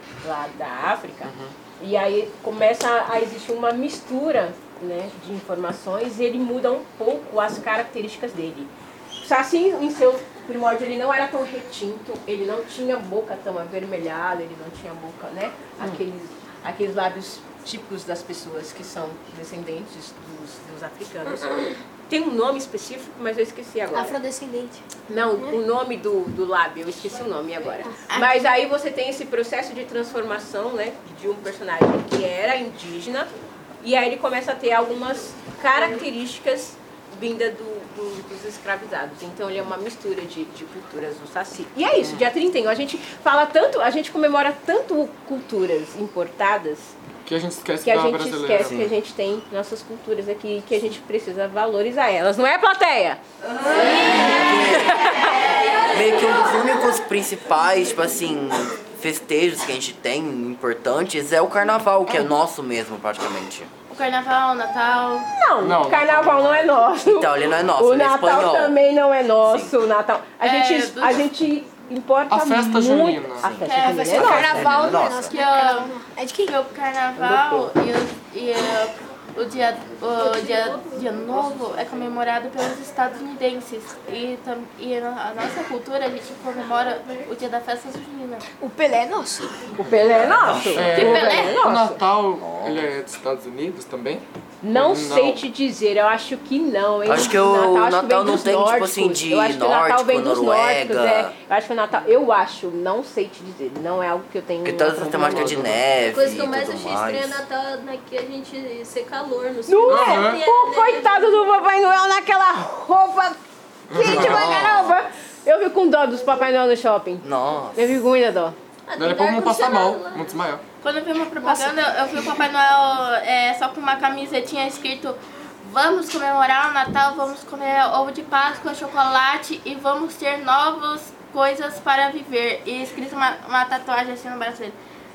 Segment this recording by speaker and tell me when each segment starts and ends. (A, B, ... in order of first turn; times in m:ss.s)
0:00.2-0:24.2 A
0:01.2-0:01.5 B
0:23.9-0:24.8 C
0:25.1-0:47.0 A
0:28.1-0:28.4 D
0:47.2-0:48.8 B
0:47.8-0:53.2 A
0:53.7-0:55.0 E
0:54.1-0:55.3 A
0:55.9-1:03.7 E
1:02.1-1:02.3 B
1:03.9-1:05.3 D
1:05.4-1:14.6 A
1:05.6-1:06.8 B
1:07.0-1:08.8 E
1:09.4-1:09.8 E
1:10.4-1:11.2 D
1:12.3-1:13.5 B
1:13.4-1:15.4 E
1:13.5-1:14.4 D
1:13.8-1:16.5 C
1:14.2-1:14.6 B
1:15.2-1:15.9 D
1:16.4-1:28.4 D
1:17.2-1:17.7 A
1:20.2-1:22.1 F
1:28.6-1:29.6 C
1:29.8-1:32.0 A
1:30.1-1:31.1 E
1:30.7-1:35.4 B
1:31.0-1:31.6 D
1:32.4-1:32.9 E
1:34.6-1:45.8 A
1:37.0-1:41.3 E
1:44.6-1:47.4 E
1:45.1-1:45.8 B
1:46.1-1:51.4 F
1:49.7-1:53.4 A
1:49.9-1:50.4 B
1:53.9-1:54.8 B
1:53.9-1:58.6 A
1:54.0-1:55.0 E
1:57.2-1:58.0 E
1:58.9-2:00.4 F
1:59.0-2:00.6 B
2:00.8-2:14.8 D